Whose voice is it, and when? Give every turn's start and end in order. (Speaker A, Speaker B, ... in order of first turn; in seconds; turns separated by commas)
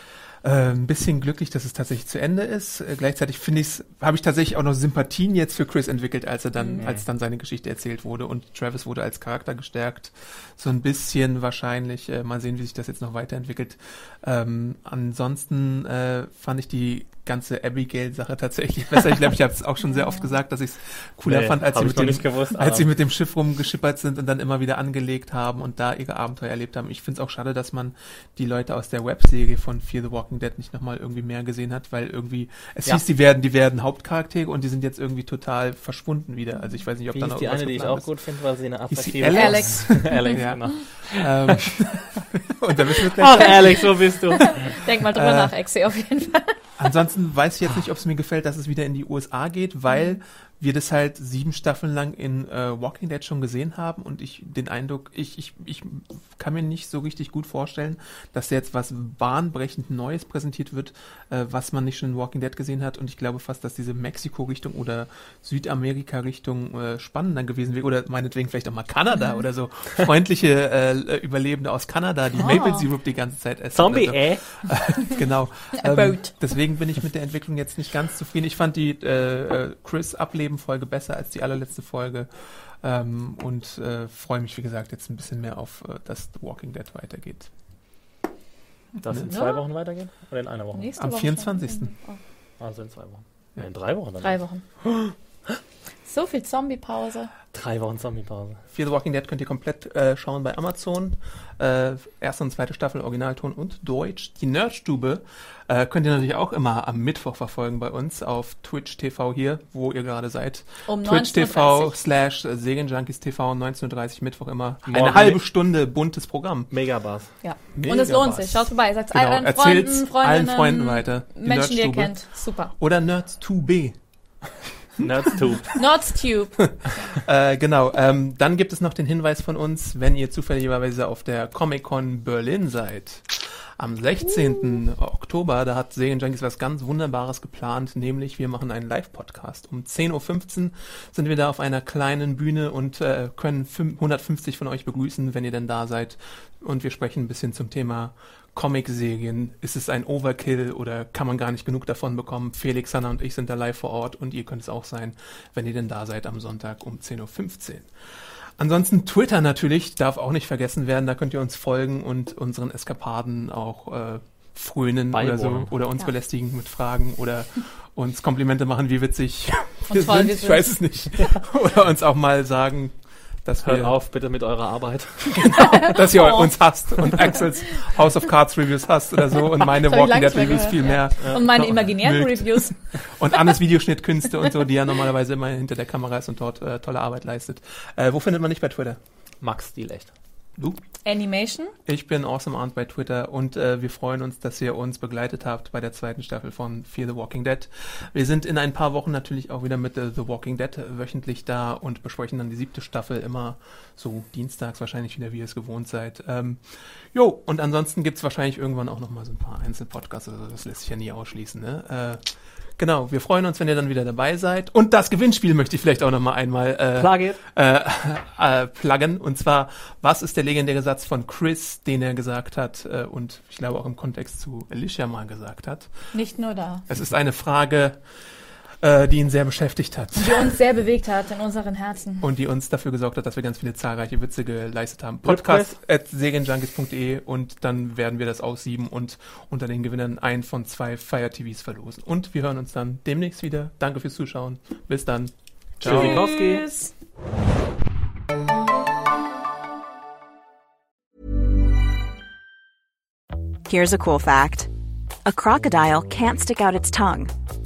Speaker A: 0.4-38.1, Speaker B: 19.9-20.2, Speaker C: 21.2-22.9, Speaker C: 37.1-42.2, Speaker A: 38.9-45.5, Speaker B: 39.3-40.5, Speaker C: 43.1-44.7, Speaker B: 44.4-46.5, Speaker A: 46.8-87.5, Speaker B: 72.4-72.8, Speaker C: 73.7-74.4, Speaker B: 75.7-76.3, Speaker C: 89.0-90.9, Speaker B: 89.3-89.6, Speaker B: 90.7-92.2, Speaker A: 91.0-91.9, Speaker C: 92.6-94.4, Speaker B: 94.2-94.6, Speaker B: 96.0-97.3, Speaker C: 97.5-98.6, Speaker A: 98.7-116.7, Speaker B: 110.9-112.0, Speaker C: 114.8-115.4, Speaker C: 116.7-117.3, Speaker B: 117.4-122.7, Speaker A: 117.7-122.2, Speaker A: 122.8-123.9, Speaker C: 125.0-125.8, Speaker B: 125.7-126.6, Speaker A: 126.7-157.9, Speaker A: 158.6-173.9, Speaker C: 165.1-165.7, Speaker B: 169.9-170.7, Speaker C: 173.6-175.8, Speaker A: 175.4-189.0, Speaker B: 175.5-176.5, Speaker B: 179.6-182.7, Speaker C: 181.2-181.4, Speaker C: 189.4-190.1, Speaker B: 191.0-191.7, Speaker A: 191.8-212.2, Speaker A: 212.8-225.9, Speaker C: 216.9-217.4, Speaker B: 226.1-226.8, Speaker A: 226.9-228.0, Speaker A: 228.8-230.5, Speaker B: 230.2-232.3, Speaker A: 232.2-246.3, Speaker C: 235.2-235.8, Speaker C: 245.8-246.7, Speaker B: 245.8-246.9, Speaker D: 253.7-254.7, Speaker D: 255.2-257.3